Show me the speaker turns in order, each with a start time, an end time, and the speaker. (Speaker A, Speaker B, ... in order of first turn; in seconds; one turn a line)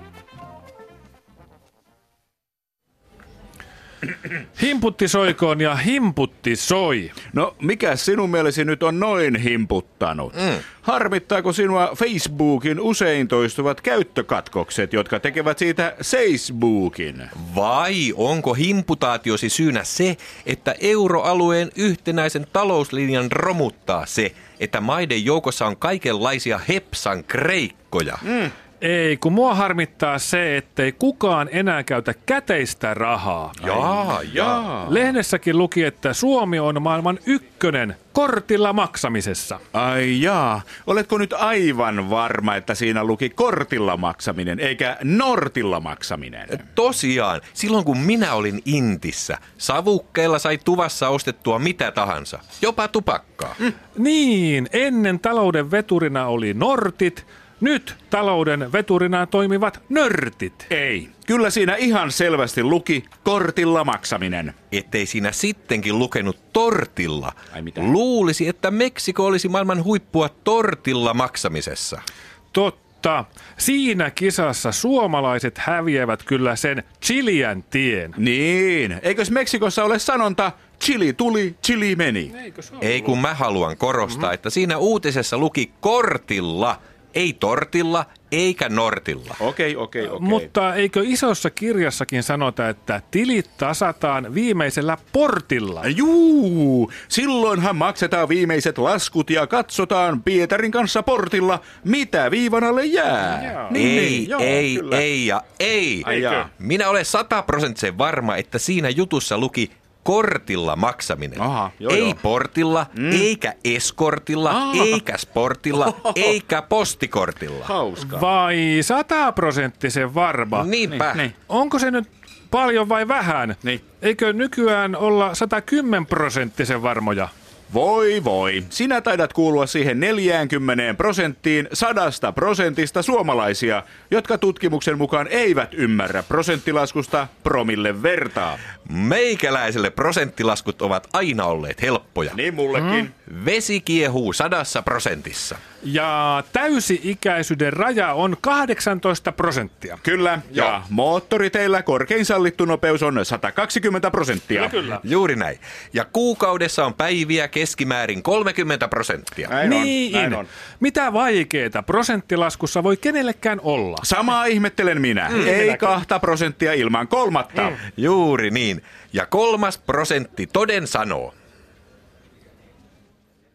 Speaker A: 4.5-7.2
Speaker B: 7.3-17.3
Speaker C: 17.3-28.2
Speaker A: 28.8-33.7
Speaker C: 33.6-34.8
Speaker B: 33.6-35.0
Speaker A: 34.8-39.6
Speaker B: 39.7-46.6
Speaker C: 46.5-53.7
Speaker A: 53.9-60.7
Speaker B: 60.7-64.5
Speaker C: 64.7-72.0
Speaker B: 67.5-67.9
Speaker A: 72.5-78.2
Speaker B: 78.2-82.3
Speaker A: 82.5-83.1
Speaker C: 82.8-89.4
Speaker B: 89.4-90.5
Speaker A: 90.0-95.9
Speaker B: 95.8-105.0
Speaker A: 103.3-103.8
Speaker C: 103.7-117.7
Speaker B: 106.0-106.5
Speaker B: 111.3-112.2
Speaker B: 112.9-113.3
Speaker B: 114.5-115.0
Speaker B: 116.1-116.3
Speaker B: 117.6-118.3
Speaker A: 118.0-120.7
Speaker C: 120.5-121.2
Speaker B: 120.9-121.3
Speaker A: 121.5-127.3
Speaker B: 127.7-138.6
Speaker C: 138.8-142.4
Speaker B: 142.3-143.1
Speaker C: 143.2-145.6
Speaker A: 145.8-150.0
Speaker B: 150.0-154.8
Speaker A: 154.5-155.0
Speaker C: 155.0-159.5
Speaker B: 159.5-160.4
Speaker A: 159.6-164.1
Speaker B: 164.0-167.8
Speaker A: 165.4-165.9
Speaker C: 167.7-171.3